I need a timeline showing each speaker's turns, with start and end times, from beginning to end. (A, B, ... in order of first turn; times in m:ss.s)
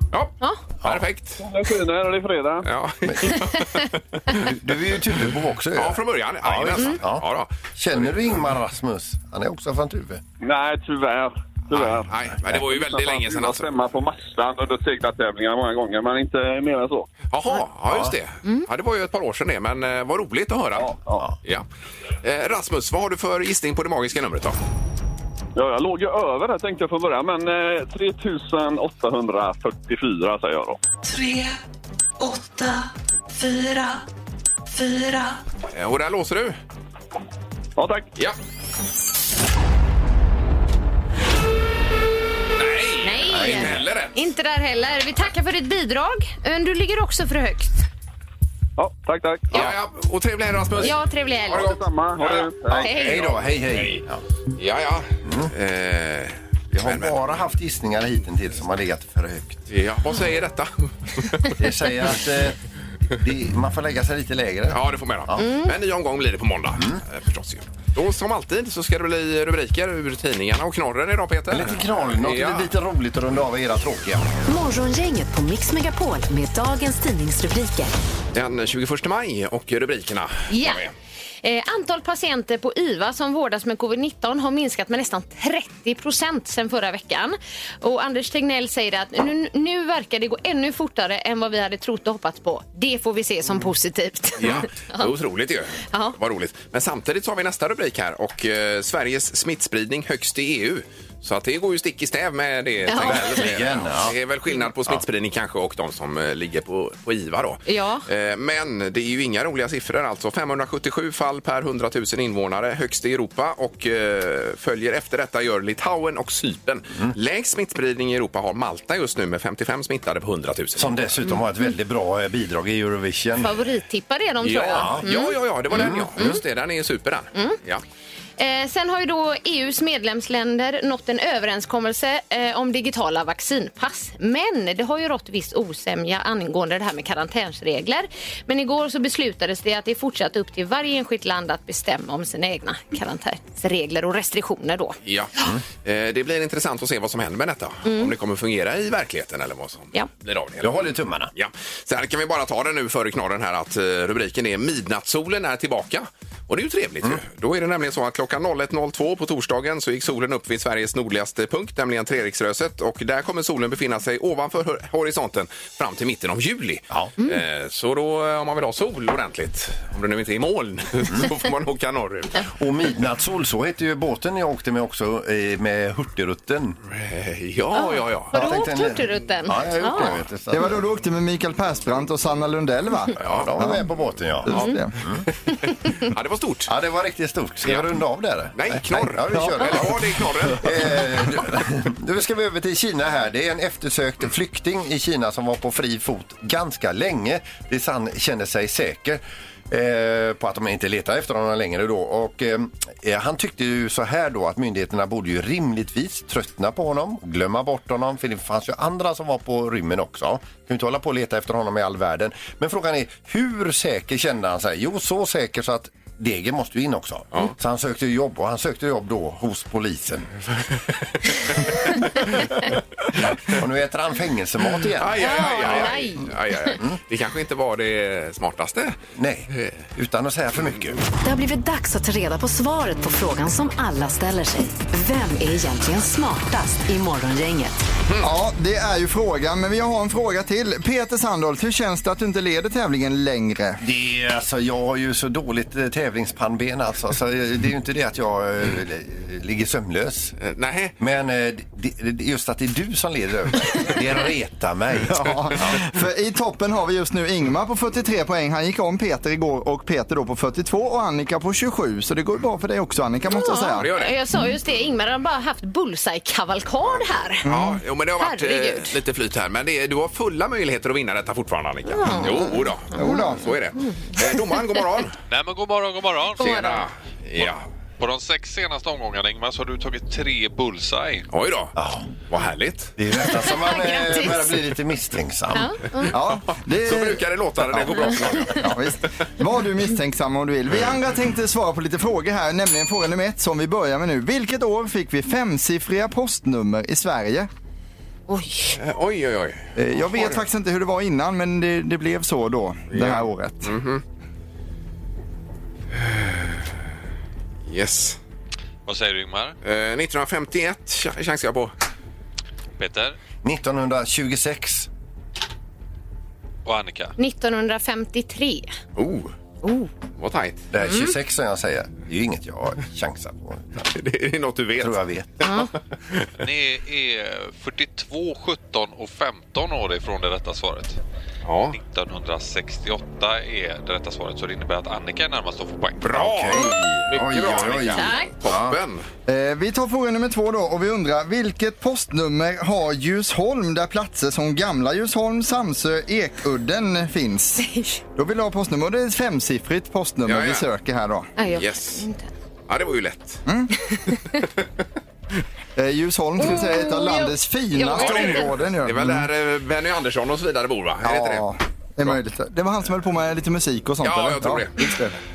0:00.1-0:01.4 A
0:01.4-0:02.7 B
0:02.6-0:04.5 A
0:03.0-0:03.3 C
0:04.3-0:07.2 C
0:05.7-0:08.1 A
0:07.8-0:10.2 C
0:10.4-0:17.1 B
0:11.7-0:13.7 A
0:17.3-0:21.6 A
0:17.9-0:18.1 C
0:20.8-0:21.2 B
0:22.2-0:24.6 A
0:25.6-0:30.8 B
0:31.0-0:31.6 D
0:32.2-0:34.0 D
0:34.7-0:35.4 D
0:35.7-0:36.6 A
0:37.8-0:38.1 B
0:42.6-0:44.1 A
0:43.0-0:47.7 E
0:43.3-0:43.9 C
0:48.8-0:49.7 B
0:49.5-0:51.0 A
0:50.8-0:51.8 E
0:51.5-0:54.0 A
0:51.5-0:52.9 B
0:52.7-0:54.2 C
0:52.8-0:53.2 E
0:54.6-0:57.2 A
0:55.2-0:55.5 C
0:56.7-0:59.7 C
0:59.7-1:01.5 A
1:01.5-1:02.6 C
1:03.2-1:05.4 C
1:04.7-1:12.7 A
1:05.4-1:05.7 E
1:11.5-1:14.3 C
1:14.5-1:17.9 F
1:18.3-1:20.9 A
1:20.5-1:20.9 E
1:21.4-1:35.1 E
1:34.4-2:01.1 A
1:42.9-1:43.4 E
1:42.9-1:44.1 C
1:47.7-1:48.0 E
2:00.8-2:03.5 C
2:03.4-2:05.4 E
2:04.4-2:07.8 A
2:04.7-2:05.0 C
2:05.7-2:06.4 C
2:08.4-2:25.0 E
2:25.0-2:52.5 A
2:27.8-2:28.1 E
2:30.6-2:31.3 C
2:52.5-2:56.8 C
2:56.9-2:58.3 A
2:57.7-3:00.1 E
2:58.3-3:00.8 C
3:00.5-3:03.8 G
3:03.2-3:05.2 C
3:03.2-3:03.5 A
3:04.4-3:04.9 G
3:05.5-3:06.7 A
3:06.7-3:40.3 C
3:08.5-3:10.8 A
3:43.4-3:46.0 C
3:45.0-3:49.0 A
3:45.2-3:46.8 E
3:49.1-3:51.0 C
3:51.2-3:57.8 F
3:58.2-4:03.8 G
4:03.8-4:10.3 C
4:10.4-4:10.9 A
4:11.0-4:15.8 C
4:15.0-4:23.9 G
4:23.3-4:27.4 E
4:23.8-4:24.1 A
4:27.4-4:35.1 A
4:27.4-4:27.8 G
4:28.2-4:29.0 E
4:31.9-4:33.2 E
4:32.9-4:33.5 G
4:33.8-4:34.6 E
4:35.3-4:36.8 H
4:36.4-4:36.8 E
4:36.4-4:37.6 A
4:37.4-4:41.3 H
4:41.3-4:41.7 A
4:41.8-4:42.1 C
4:42.3-4:42.9 A
4:43.0-4:45.8 C
4:43.2-4:44.6 E
4:45.5-4:46.1 E
4:46.1-4:57.5 G
4:46.8-4:48.7 A
4:58.3-4:58.8 E
4:58.8-5:00.4 A
4:59.8-5:03.7 G
5:02.9-5:04.0 A
5:05.9-5:06.6 A
5:07.7-5:08.2 A
5:08.9-5:09.5 H
5:09.6-5:11.7 A
5:12.8-5:13.2 H
5:13.4-5:14.9 C
5:16.6-5:17.1 H
5:17.2-5:18.7 E
5:19.0-5:19.3 A
5:19.6-5:19.9 E
5:20.2-5:20.7 A
5:20.7-5:23.9 C
5:20.8-5:21.1 E
5:23.9-5:26.3 A
5:24.8-5:25.3 C
5:25.4-5:25.7 E
5:26.4-5:31.0 H
5:31.4-5:31.8 A
5:31.7-5:36.3 H
5:36.0-5:39.0 A
5:36.1-5:38.8 C
5:37.9-5:38.3 E
5:39.3-5:47.6 G
5:47.6-5:48.0 E
5:48.2-5:51.3 G
5:50.2-5:50.6 A
5:51.4-5:52.3 E
5:51.5-5:52.0 A
5:52.7-5:53.4 A
5:53.5-5:53.7 G
5:55.8-5:59.3 G
5:56.4-5:58.5 E
5:57.9-6:01.5 A
6:01.0-6:05.1 G
6:04.0-6:04.8 A